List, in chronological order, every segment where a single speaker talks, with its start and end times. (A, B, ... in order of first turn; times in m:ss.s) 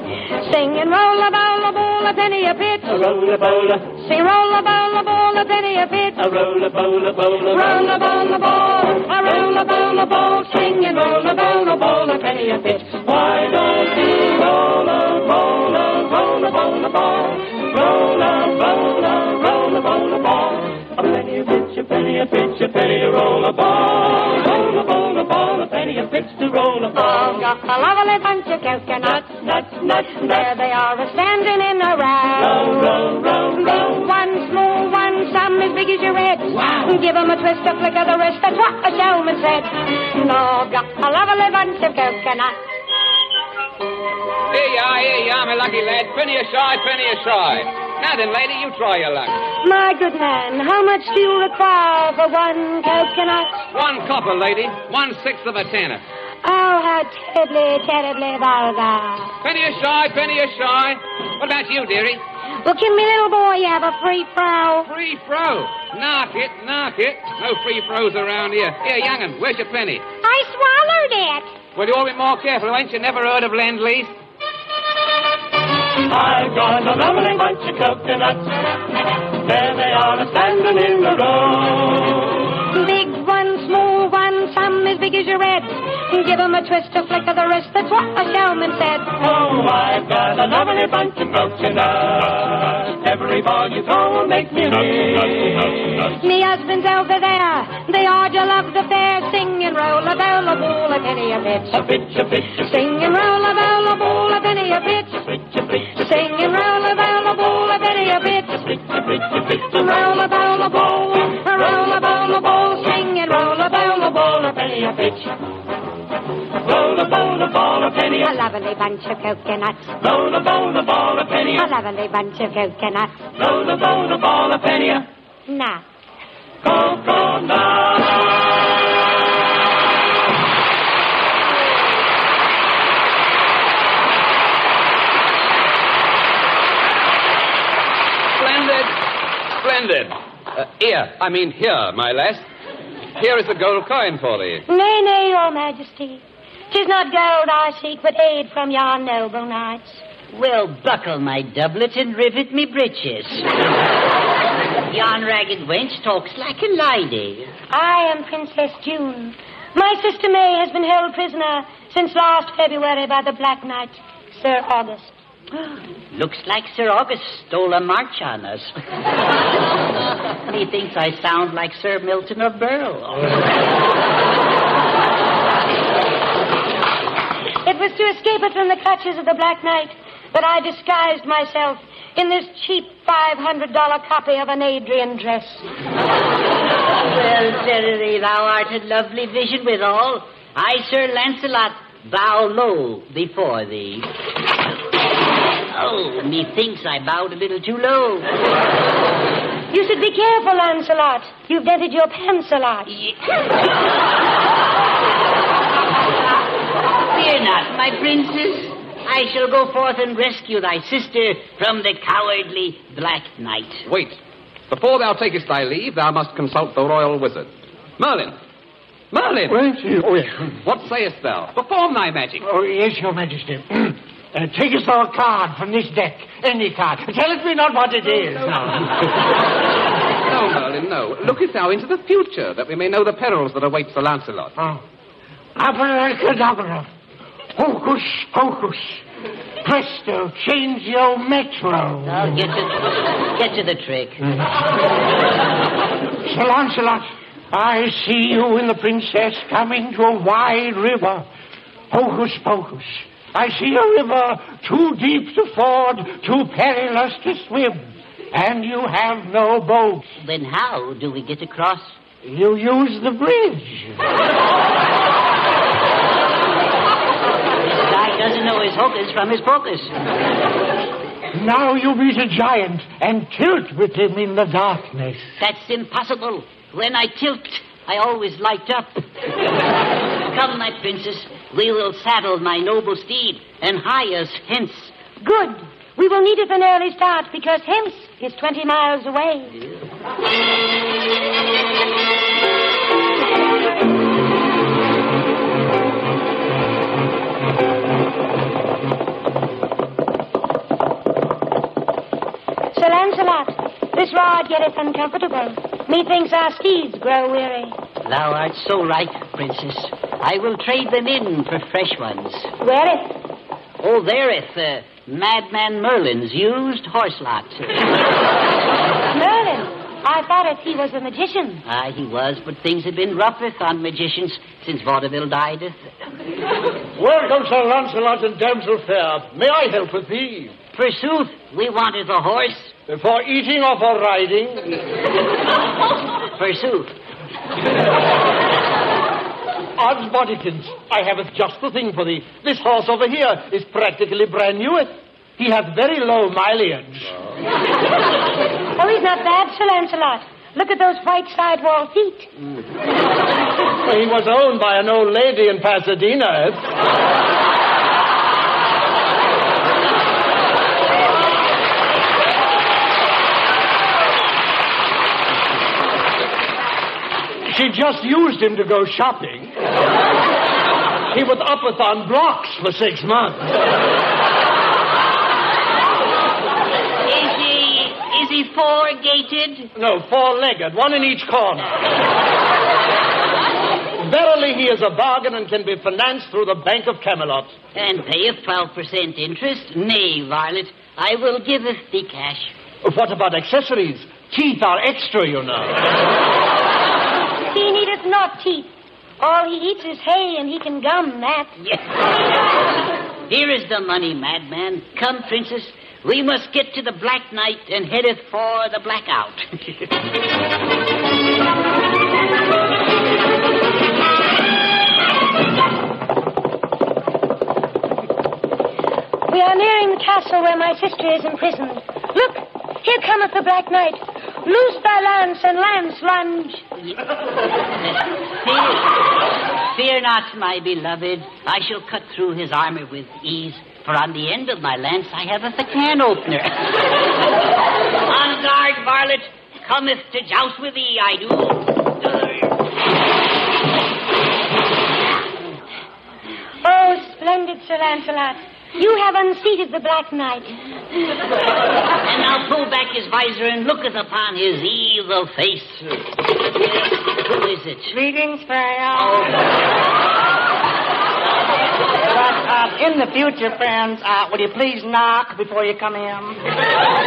0:00.4-0:03.0 A
0:02.9-0:03.9 B
0:04.0-0:06.2 A
0:06.2-0:10.4 B
0:07.5-0:11.6 A
0:10.9-0:27.4 B
0:27.0-0:29.6 A
0:29.1-0:30.5 B
0:30.2-0:33.0 A
0:32.4-0:33.9 B
0:33.7-0:42.6 A
0:36.6-0:36.9 B
0:44.5-0:49.4 C
0:49.6-0:53.6 A
0:53.7-0:56.0 C
0:56.4-0:59.3 A
0:59.4-1:02.2 C
1:02.6-1:04.9 A
1:04.9-1:10.1 C
1:10.2-1:11.6 A
1:11.7-1:14.2 C
1:16.1-1:18.5 B
1:19.4-1:22.3 B
1:22.7-1:29.1 A
1:29.2-1:36.2 B
1:36.2-1:45.2 A
1:41.8-1:42.5 B
1:46.0-1:48.8 A
1:49.6-1:51.1 B
1:51.3-1:54.2 A
1:51.7-1:52.5 B
1:54.2-1:55.3 B
1:56.6-1:58.3 B
1:58.2-1:59.9 A
2:00.0-2:01.7 B
2:01.6-2:03.3 A
2:03.4-2:05.0 B
2:05.5-2:05.8 A
2:06.6-2:08.0 B
2:18.4-2:19.0 C
2:19.6-2:22.4 C
2:23.2-2:24.6 C
2:24.7-2:30.0 A
2:30.3-2:33.5 D
2:34.9-2:37.5 D
2:37.7-2:45.1 A
2:45.6-2:48.7 D
2:50.5-2:53.4 D
2:57.7-3:05.7 A
3:07.0-3:14.1 D
3:15.7-3:18.3 D
3:19.7-3:22.9 A
3:22.9-3:23.4 D
3:27.1-3:33.8 D
3:33.9-3:34.2 C
3:34.7-3:38.4 C
3:39.1-3:39.7 C
3:39.5-3:40.3 E
3:40.5-3:42.4 C
3:42.4-3:48.9 E
3:50.3-3:54.5 C
3:55.6-3:56.9 E
3:57.6-3:59.0 E
3:59.6-4:02.4 E
4:02.0-4:04.2 D
4:06.2-4:11.3 E
4:11.9-4:20.0 E
4:20.2-4:22.0 D
4:22.2-4:24.0 E
4:27.8-4:29.9 D
4:31.3-4:35.3 E
4:35.4-4:39.0 D
4:40.3-4:45.0 D
4:45.2-4:49.5 A
5:02.7-5:07.8 A
5:08.0-5:12.5 D
5:12.6-5:13.1 A
5:13.8-5:17.8 D
5:19.1-5:21.6 A
5:21.7-5:25.8 D
5:27.0-5:30.6 F
5:30.7-5:32.7 D
5:32.9-5:34.8 F
5:36.3-5:36.9 D
5:39.8-5:47.1 F
5:48.8-5:52.3 A
5:53.8-5:56.7 F
6:07.5-6:09.5 F
6:11.1-6:13.5 F
6:17.1-6:19.7 D
6:19.8-6:21.7 F
6:24.0-6:27.6 F
6:27.8-6:32.5 D
6:32.8-6:35.8 F
6:37.5-6:38.7 A
6:39.2-6:41.5 A
6:41.6-6:42.0 D
6:43.3-6:49.5 D
6:59.3-7:06.6 A
7:07.8-7:09.0 D
7:09.6-7:16.7 D
7:18.0-7:22.5 D
7:26.6-7:30.5 A
7:32.0-7:35.9 D
7:37.2-7:38.0 D
7:37.9-7:39.2 G
7:39.0-7:39.3 D
7:42.0-7:46.4 G